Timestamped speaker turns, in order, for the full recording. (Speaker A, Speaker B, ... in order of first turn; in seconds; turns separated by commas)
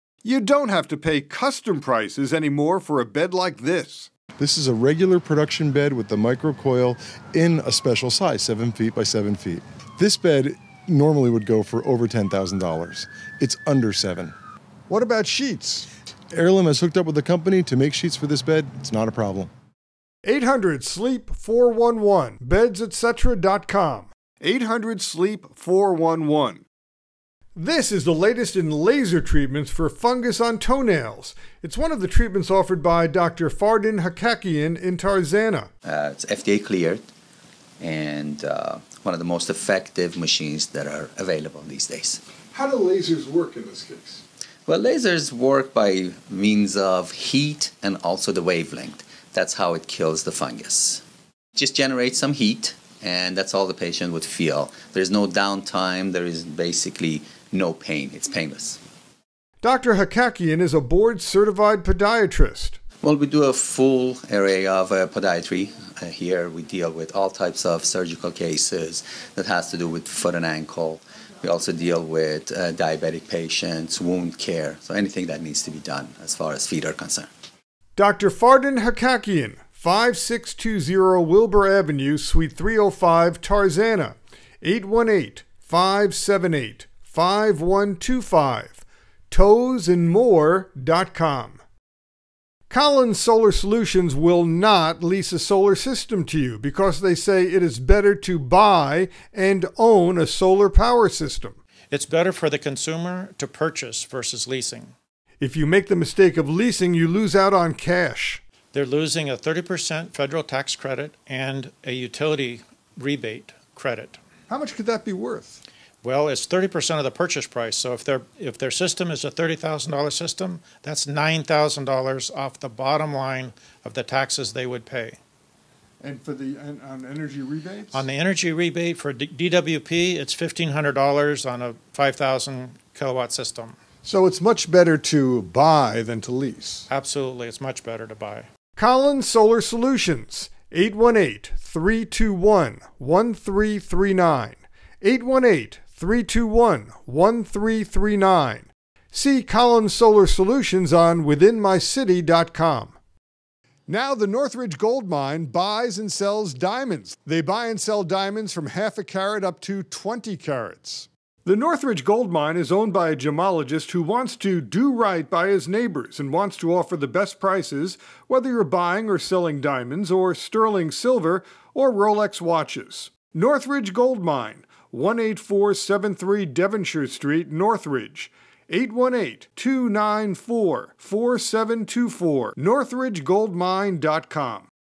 Speaker A: 0.2-4.1, Speaker B: 4.4-14.3, Speaker A: 14.9-15.9, Speaker B: 16.3-19.5, Speaker A: 20.2-26.6, Speaker A: 27.6-35.7, Speaker C: 35.8-37.0, Speaker C: 37.8-42.2, Speaker A: 42.5-44.2, Speaker C: 44.6-51.0, Speaker C: 51.5-58.8, Speaker A: 59.6-62.8, Speaker C: 63.0-77.3, Speaker A: 78.0-91.6, Speaker A: 92.7-101.6, Speaker D: 101.9-104.9, Speaker A: 105.4-108.4, Speaker D: 108.7-114.2, Speaker A: 114.5-115.6, Speaker D: 116.0-125.2, Speaker A: 126.0-128.0, Speaker D: 127.9-133.8, Speaker A: 134.0-136.8, Speaker D: 136.9-138.5, Speaker A: 138.8-152.9, Speaker A: 153.9-184.7